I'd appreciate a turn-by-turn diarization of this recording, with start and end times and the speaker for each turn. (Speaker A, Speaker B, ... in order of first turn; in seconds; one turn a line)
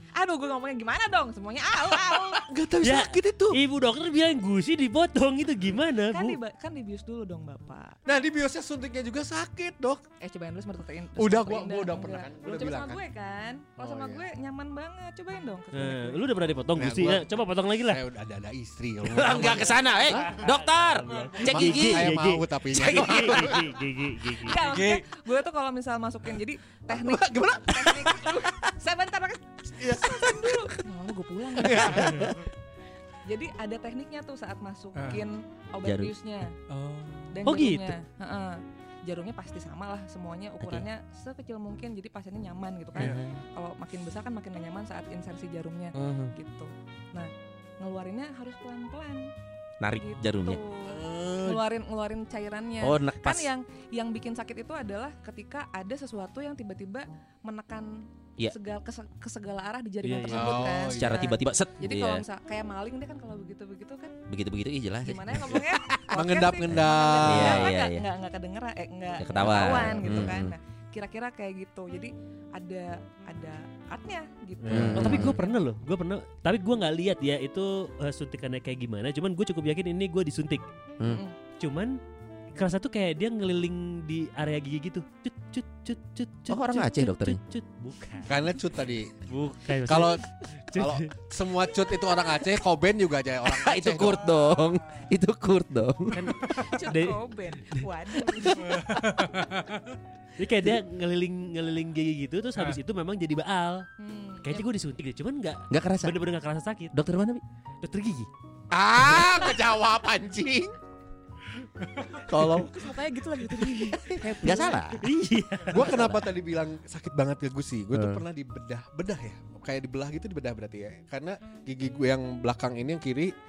Speaker A: 0.1-2.5
Speaker B: 1.9-3.6
Speaker C: 2.8-6.4
Speaker A: 6.1-8.0
Speaker B: 8.1-10.1
Speaker A: 10.2-16.2
Speaker B: 11.2-13.0
Speaker B: 13.8-14.3
Speaker C: 15.7-18.0
Speaker B: 16.8-17.3
Speaker B: 17.8-20.0
Speaker D: 19.0-22.1
Speaker C: 20.1-24.6
Speaker B: 21.4-23.8
Speaker A: 24.4-32.4
Speaker E: 24.6-25.1
Speaker B: 26.9-28.6
Speaker B: 29.8-30.8
Speaker B: 31.5-32.5
Speaker A: 33.2-36.6
Speaker E: 35.0-35.2
Speaker D: 35.8-36.1
Speaker E: 36.7-37.5
Speaker A: 37.3-49.3
Speaker C: 37.5-38.0
Speaker D: 40.6-40.9
Speaker D: 43.0-43.4
Speaker E: 43.0-43.2
Speaker B: 46.0-46.3
Speaker D: 49.8-50.6
Speaker A: 50.0-64.2
Speaker B: 50.9-51.6
Speaker D: 52.8-53.5
Speaker C: 60.0-60.6
Speaker B: 60.3-61.3
Speaker D: 60.9-62.2
Speaker D: 64.3-66.0
Speaker A: 65.0-75.6
Speaker B: 66.1-67.7
Speaker D: 66.7-68.1
Speaker D: 69.2-70.6
Speaker D: 74.7-75.4
Speaker B: 74.7-75.0
Speaker C: 74.7-80.7
Speaker A: 81.1-81.3
Speaker C: 81.6-82.0
Speaker C: 82.5-88.4
Speaker D: 86.5-87.4
Speaker B: 88.3-89.3
Speaker C: 89.3-91.1
Speaker B: 89.9-90.2
Speaker B: 90.8-94.3
Speaker D: 93.5-96.3
Speaker C: 96.1-97.2
Speaker A: 96.4-99.1
Speaker E: 98.6-100.0
Speaker C: 100.4-103.9
Speaker A: 104.0-104.7
Speaker C: 104.5-106.9
Speaker D: 105.7-106.2
Speaker D: 106.9-107.4
Speaker C: 107.8-108.3
Speaker B: 108.7-110.8
Speaker B: 112.2-112.8
Speaker A: 112.6-114.9
Speaker D: 113.9-115.1
Speaker C: 115.0-116.2
Speaker B: 115.7-123.3
Speaker D: 117.9-118.2